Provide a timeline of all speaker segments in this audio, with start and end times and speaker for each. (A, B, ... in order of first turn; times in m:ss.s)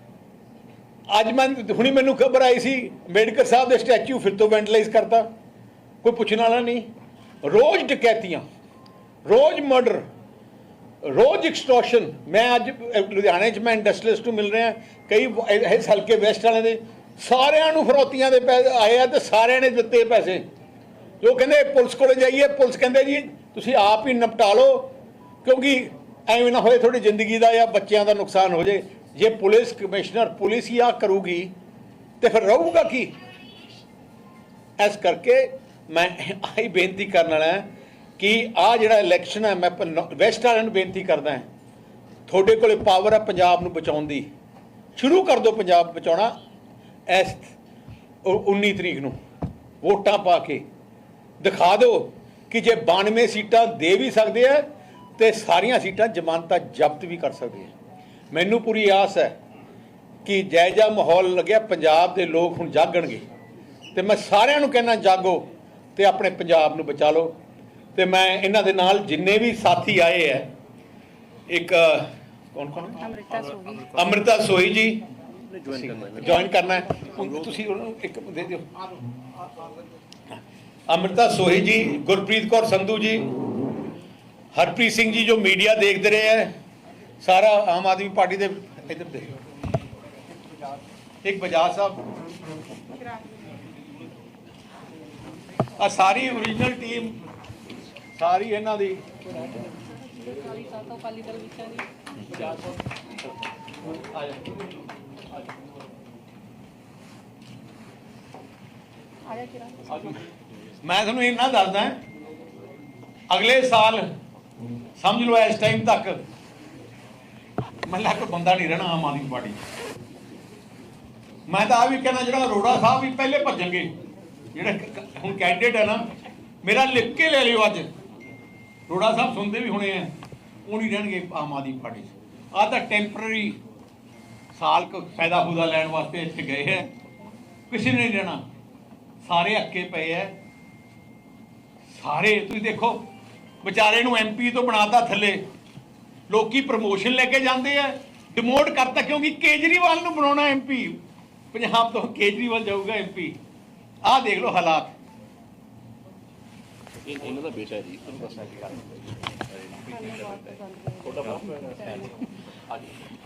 0:01.1-0:05.3 A
0:06.0-0:06.9 A
0:07.4-0:08.4 A
0:09.3-0:10.0 A
0:11.0-0:20.4 A
0:21.2-0:31.5 A
0:32.2-0:33.1 A
0:34.8-0:37.7 A
0:38.2-0:41.5 A
0:42.3-0:44.3 A
0:45.0-0:46.3 A
0:47.1-0:47.5 A
0:48.2-0:49.2 A
0:49.8-0:50.6 A
0:51.4-0:54.6 A
0:55.2-0:57.7 A
0:58.3-0:59.3 A
1:00.2-1:03.2 A
1:03.9-1:07.3 A
1:08.0-1:10.5 A
1:11.5-1:13.0 A
1:13.0-1:13.9 B
1:13.9-1:15.0 A
1:15.5-1:16.2 C
1:15.7-1:18.6 A
1:20.9-1:23.3 A
1:24.5-1:26.5 A
1:27.2-1:29.3 A
1:31.2-1:32.0 A
1:35.8-1:37.2 A
1:38.2-1:39.0 A
1:40.4-1:41.8 B
1:42.3-1:42.6 A
1:44.2-1:44.4 A
1:50.8-1:52.0 A
1:53.3-1:54.0 A
1:55.0-1:56.2 A
1:57.9-1:59.6 A
2:01.5-2:03.9 A
2:04.6-2:06.0 A
2:06.6-2:07.9 A
2:08.9-2:10.1 A
2:10.7-2:13.6 A
2:14.5-2:16.9 A
2:17.7-2:18.4 A
2:19.2-2:20.3 A
2:21.9-2:23.0 A
2:23.6-2:25.4 A
2:26.3-2:31.0 A
2:31.5-2:33.4 A
2:34.0-2:34.9 A
2:37.1-2:41.9 C
2:41.7-2:42.0 B